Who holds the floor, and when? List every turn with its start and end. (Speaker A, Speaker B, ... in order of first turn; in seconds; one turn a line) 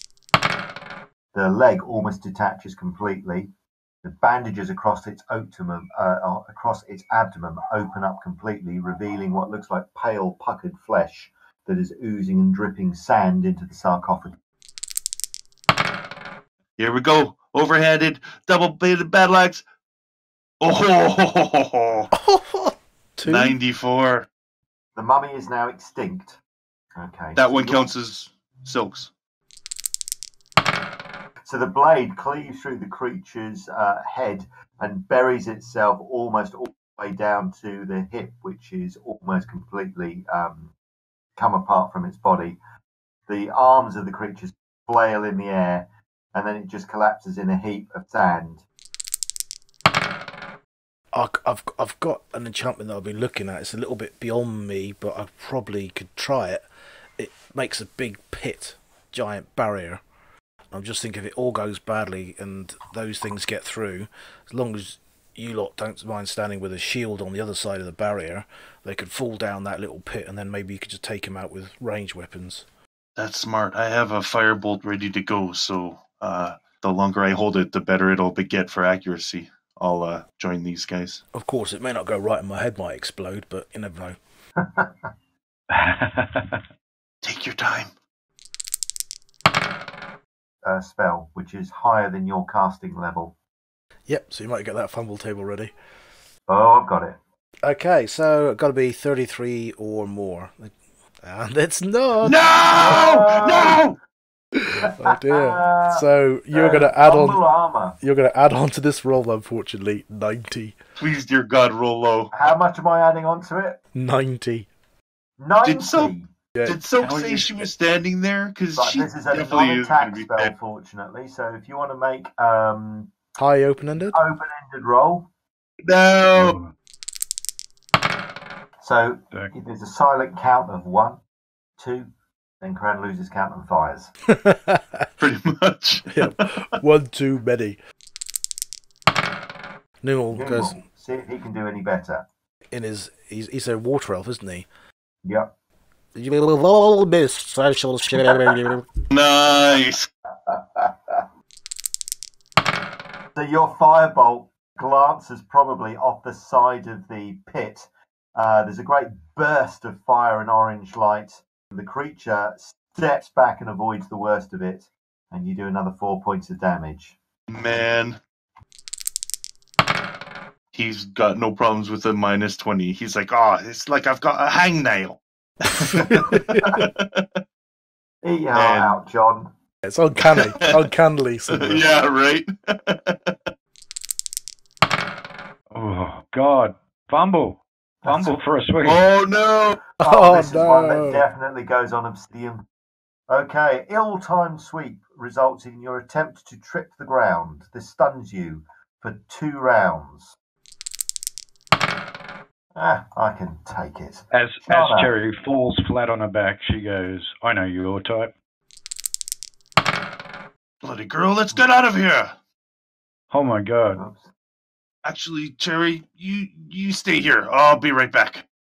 Speaker A: 1.3-3.5
Speaker A: 4.0-14.3
Speaker B: 16.8-19.6
Speaker B: 20.6-22.1
Speaker C: 22.1-23.6
Speaker B: 23.2-24.3
Speaker A: 24.9-26.4
Speaker A: 27.0-27.9
Speaker B: 27.4-29.1
Speaker A: 31.4-40.7
Speaker A: 41.4-42.6
Speaker A: 43.3-48.6
Speaker C: 51.1-56.6
Speaker C: 57.2-60.0
Speaker C: 60.7-72.7
Speaker B: 73.2-81.2
Speaker C: 81.3-84.2
Speaker D: 85.7-86.6
Speaker B: 87.2-87.9
Speaker A: 90.6-93.4
Speaker C: 94.1-95.7
Speaker A: 96.5-97.2
Speaker C: 97.6-102.4
Speaker B: 102.2-104.0
Speaker A: 102.7-103.8
Speaker C: 104.6-107.4
Speaker A: 104.8-108.0
Speaker C: 108.0-110.8
Speaker B: 111.0-112.3
Speaker A: 112.3-113.8
Speaker C: 114.0-114.7
Speaker A: 115.4-116.3
Speaker B: 115.6-116.1
Speaker B: 116.7-120.5
Speaker D: 117.0-117.6
Speaker A: 118.8-123.1
Speaker C: 123.4-124.2
Speaker A: 124.0-125.3
Speaker B: 125.9-126.6
Speaker D: 126.3-126.7
Speaker A: 128.8-131.2
Speaker A: 131.8-132.1
Speaker A: 132.6-134.1
Speaker C: 134.4-135.1
Speaker B: 135.2-136.3
Speaker C: 136.1-137.8
Speaker C: 140.0-140.8
Speaker A: 140.3-142.3
Speaker C: 142.7-144.7
Speaker A: 145.2-145.5
Speaker C: 146.2-148.8
Speaker B: 149.1-150.1
Speaker A: 150.5-151.2
Speaker A: 153.4-167.2
Speaker B: 167.5-168.2
Speaker B: 170.7-175.2
Speaker B: 175.9-176.2
Speaker C: 175.9-176.6
Speaker A: 176.1-176.7
Speaker B: 176.8-177.2
Speaker A: 178.2-179.5
Speaker B: 178.5-179.0
Speaker C: 179.8-181.9
Speaker B: 180.3-180.8
Speaker B: 181.6-183.2
Speaker D: 185.7-189.1
Speaker A: 188.0-188.3
Speaker B: 188.8-189.8
Speaker A: 190.0-192.6
Speaker C: 190.0-191.3
Speaker A: 193.3-200.4
Speaker A: 202.8-205.1
Speaker D: 204.3-208.3
Speaker B: 210.8-212.3
Speaker D: 213.3-214.0
Speaker A: 213.9-214.3
Speaker B: 215.1-218.4